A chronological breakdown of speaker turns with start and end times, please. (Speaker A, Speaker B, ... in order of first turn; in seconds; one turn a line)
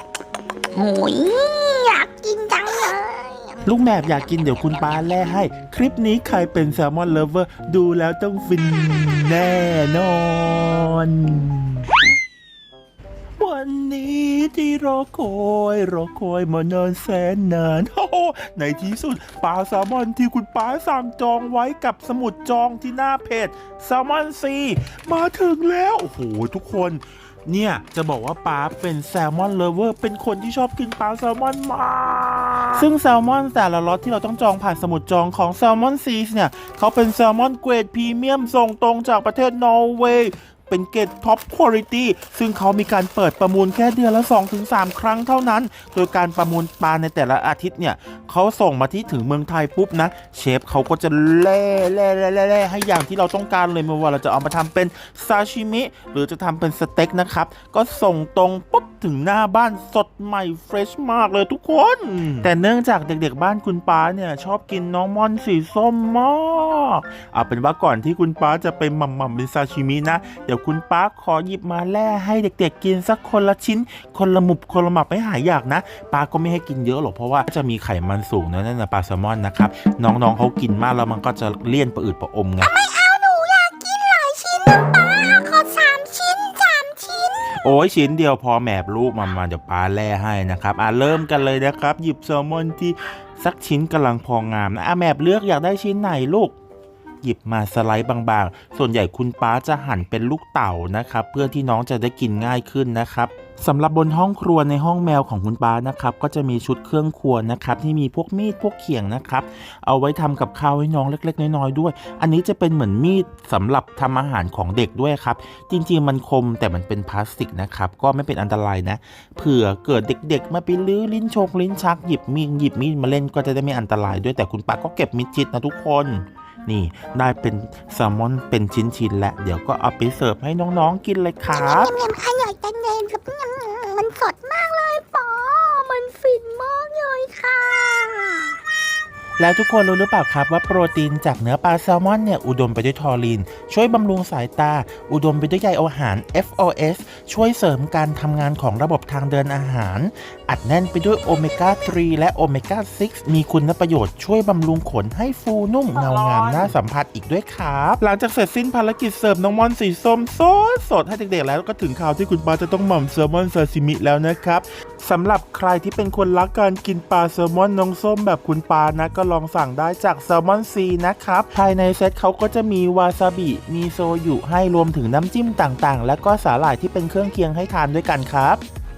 Speaker A: 0.7-3.7
Speaker B: 3.6-11.8
Speaker A: 4.3-5.0
Speaker B: 13.4-82.7
Speaker A: 82.6-87.5
Speaker B: 87.5-96.6
Speaker B: 97.2-131.9
Speaker A: 131.5-138.6
Speaker B: 139.4-178.6